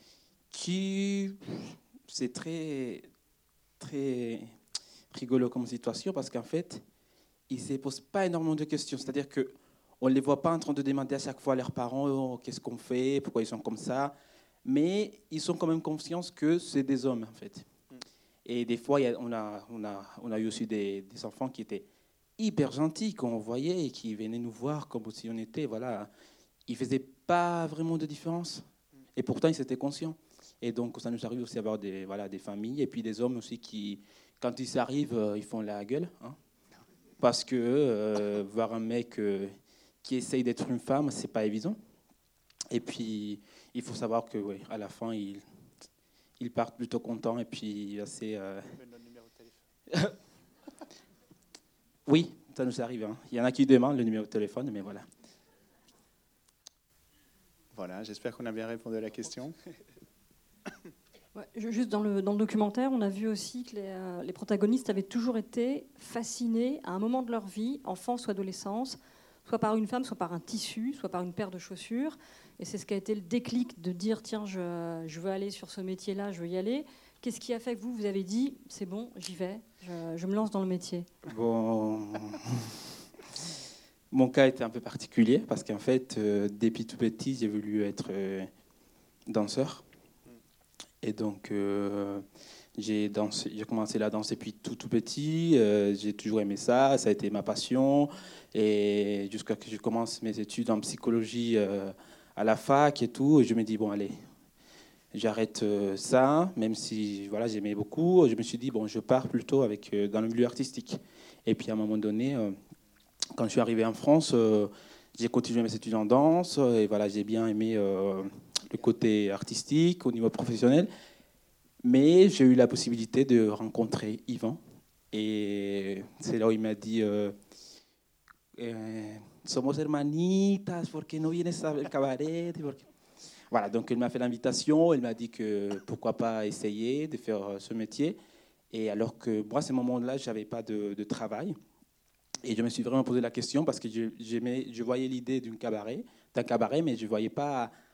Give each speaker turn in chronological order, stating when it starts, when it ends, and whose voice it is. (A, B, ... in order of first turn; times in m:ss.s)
0:00.5-0:03.1 A
0:03.8-0:04.5 A
0:05.1-0:06.8 A
0:07.5-0:09.5 A
0:10.0-0:14.1 A
0:14.6-0:17.6 A
0:18.4-0:21.8 A
0:22.4-0:26.1 A
0:26.7-0:28.6 A
0:29.2-0:36.4 A
0:37.2-0:39.5 A
0:40.0-0:41.8 A
0:42.7-0:45.4 A
0:46.4-0:48.8 A
0:48.8-0:49.5 B
0:52.0-0:55.0 A
0:57.7-0:59.5 B
1:01.3-1:21.1 C
1:21.3-1:22.7 A
1:24.1-1:28.5 A
1:29.3-1:29.8 A
1:31.0-1:32.2 A
1:32.8-1:44.2 A
1:45.1-1:52.6 A
1:53.4-2:00.9 A
2:01.8-2:04.6 A
2:05.1-2:07.3 A
2:08.5-2:12.9 A
2:13.5-2:18.2 A
2:18.7-2:21.5 A
2:22.4-2:27.7 A